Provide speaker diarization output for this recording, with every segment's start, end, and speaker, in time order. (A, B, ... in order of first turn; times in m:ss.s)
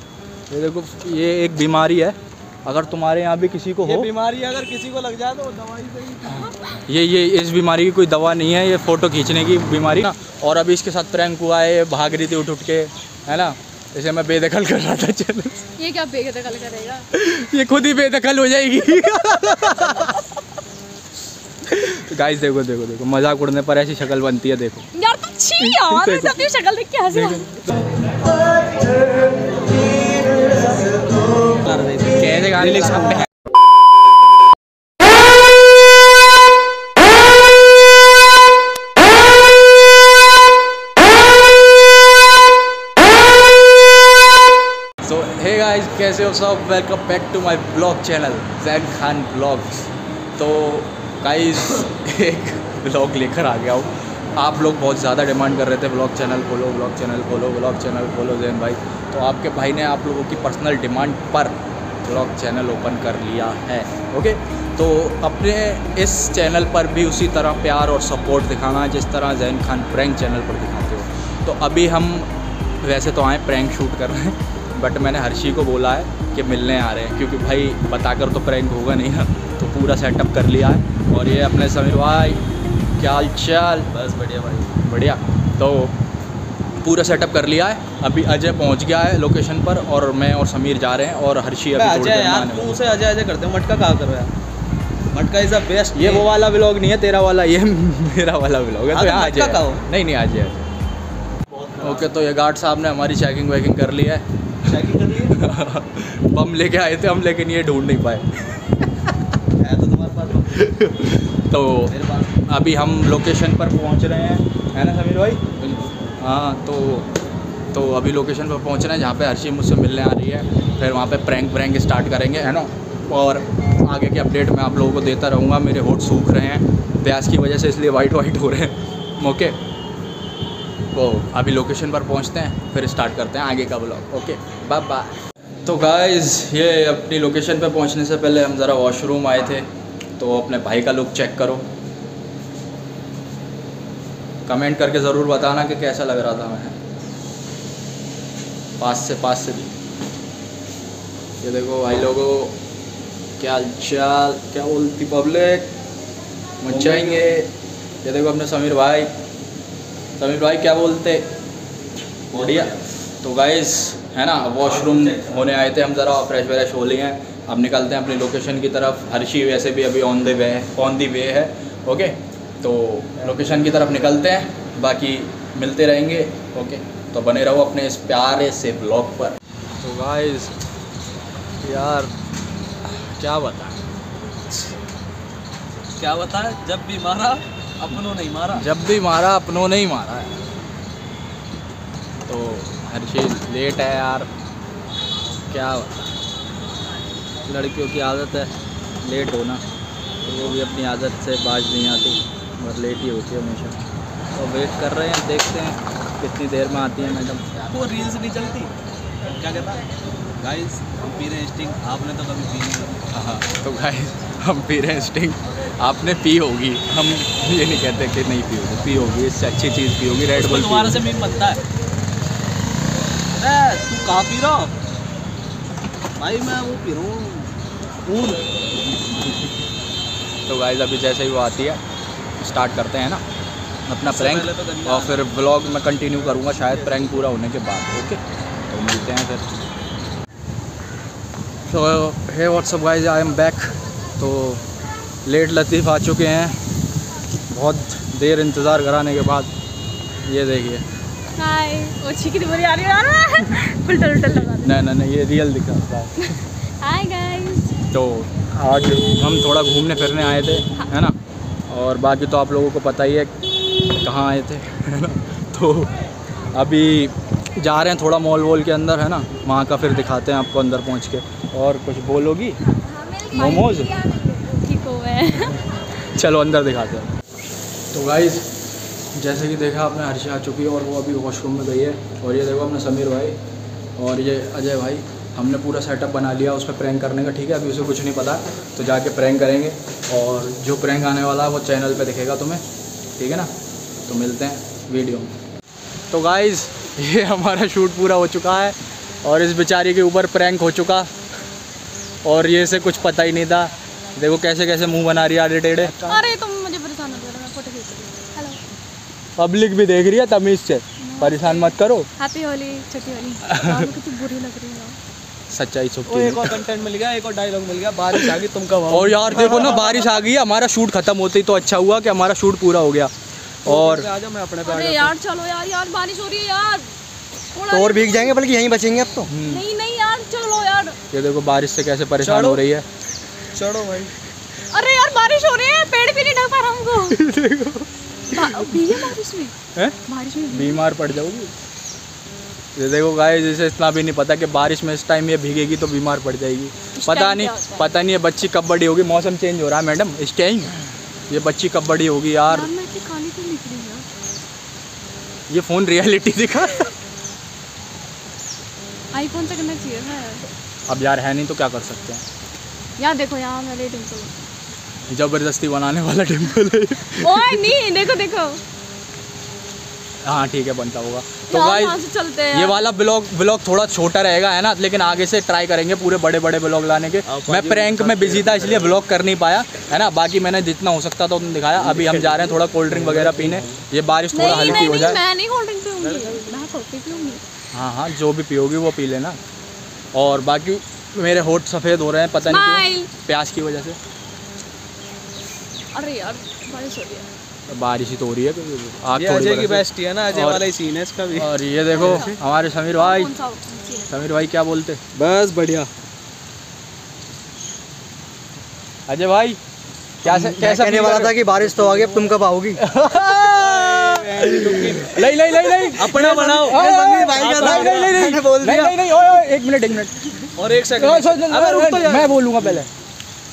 0:00.5-0:04.1 A
0:03.8-0:06.5 B
0:06.8-0:15.6 A
0:15.8-0:17.0 C
0:17.1-0:20.2 A
0:21.7-0:24.8 A
0:24.9-0:27.4 C
0:25.6-0:26.4 A
0:27.1-0:27.8 A
0:31.4-0:33.3 B
0:32.1-0:33.3 A
0:45.0-1:12.3 A
1:12.8-1:22.4 A
1:23.0-1:23.9 A
1:23.9-1:24.7 B
1:24.8-1:25.9 A
1:26.8-1:32.8 A
1:31.7-1:34.3 B
1:35.1-1:36.3 B
1:35.9-1:40.7 A
1:38.9-1:39.8 B
1:41.5-1:42.2 B
1:41.8-1:44.2 A
1:44.6-1:45.3 B
1:45.3-1:48.6 A
1:49.6-1:50.7 B
1:50.5-1:51.9 A
1:51.9-1:52.3 B
1:52.4-1:55.4 A
1:55.6-1:55.8 B
1:56.2-1:57.1 A
1:57.7-2:09.6 A
2:10.9-2:21.7 A
2:24.4-2:26.8 A
2:28.8-2:29.7 A
2:31.4-2:32.6 A
2:33.4-2:35.7 A
2:36.6-2:37.5 A
2:36.7-2:37.2 B
2:38.0-2:39.1 A
2:40.2-2:41.3 A
2:42.3-3:00.5 A
2:42.3-2:42.8 B
2:44.7-2:45.3 B
3:01.6-3:02.1 A
3:02.8-3:03.8 A
3:06.0-3:08.6 B
3:08.5-3:10.4 A
3:12.2-3:14.3 A
3:15.5-3:16.1 A
3:17.4-3:18.5 A
3:19.0-3:19.6 A
3:20.2-3:23.8 A
3:24.3-3:27.4 A
3:27.7-3:28.7 B
3:29.3-3:29.8 B
3:30.4-3:33.0 B
3:33.1-3:41.0 A
3:40.3-3:41.6 B
3:43.3-3:44.7 B
3:46.2-3:47.5 B
3:48.0-3:48.5 B
3:50.4-3:51.8 A
3:52.4-3:53.2 A
3:53.9-3:59.4 A
3:54.1-3:55.2 B
3:56.7-3:57.2 B
4:01.6-4:04.6 A
4:05.2-4:06.5 A
4:07.5-4:09.5 A
4:10.2-4:10.8 A
4:11.4-4:14.7 C
4:14.6-4:16.3 A
4:16.2-4:17.8 C
4:17.9-4:21.2 A
4:21.7-4:23.3 A
4:24.0-4:25.9 A
4:26.5-4:32.6 A
4:33.1-4:35.6 C
4:33.3-4:34.0 A
4:36.0-4:37.1 A
4:37.9-4:38.5 A
4:39.1-4:43.4 A
4:44.0-4:52.6 A
4:53.2-4:53.5 A
4:54.0-4:55.3 A
4:56.1-5:01.1 A
5:02.2-5:06.0 A
5:05.8-5:06.2 B
5:06.0-5:08.6 C
5:09.4-5:12.1 A
5:11.0-5:15.0 C
5:13.4-5:13.9 A
5:15.5-5:16.6 A
5:16.1-5:20.0 B
5:18.1-5:23.1 A
5:23.6-5:24.1 A
5:23.6-5:25.1 B
5:24.6-5:26.9 C
5:27.5-5:28.3 C
5:27.7-5:29.3 D
5:29.3-5:29.6 A
5:29.4-5:31.0 C
5:31.1-5:32.8 A
5:32.2-5:32.6 B
5:33.5-5:34.1 B
5:34.7-5:37.2 C
5:37.1-5:38.9 A
5:38.3-5:40.8 C
5:40.5-5:41.5 A
5:42.7-5:52.7 A
5:47.0-5:47.9 C
5:52.5-5:54.0 C
5:55.5-5:56.9 A
5:59.1-6:00.5 C
6:00.9-6:02.2 A
6:03.0-6:04.4 C
6:05.1-6:07.7 A
6:07.1-6:08.6 C
6:10.2-6:12.0 A
6:11.5-6:12.8 C
6:12.5-6:25.2 A
6:17.2-6:19.0 B
6:21.9-6:23.7 B
6:24.3-6:27.4 C
6:24.5-6:24.8 B
6:26.0-6:26.4 B
6:27.7-6:29.4 A
6:30.1-6:34.0 A
6:32.4-6:33.1 C
6:35.9-6:37.3 C
6:37.7-6:40.7 A
6:39.1-6:41.5 B
6:41.3-6:43.3 A
6:42.0-6:42.3 D
6:43.0-6:44.1 C
6:44.1-6:45.0 A
6:45.1-6:45.9 B
6:49.1-6:49.6 A
6:50.2-6:51.4 A
6:50.2-6:52.8 D
6:52.8-7:00.2 A
6:53.4-6:58.2 B
6:56.2-6:59.0 D
7:00.6-7:02.4 B
7:00.9-7:02.9 A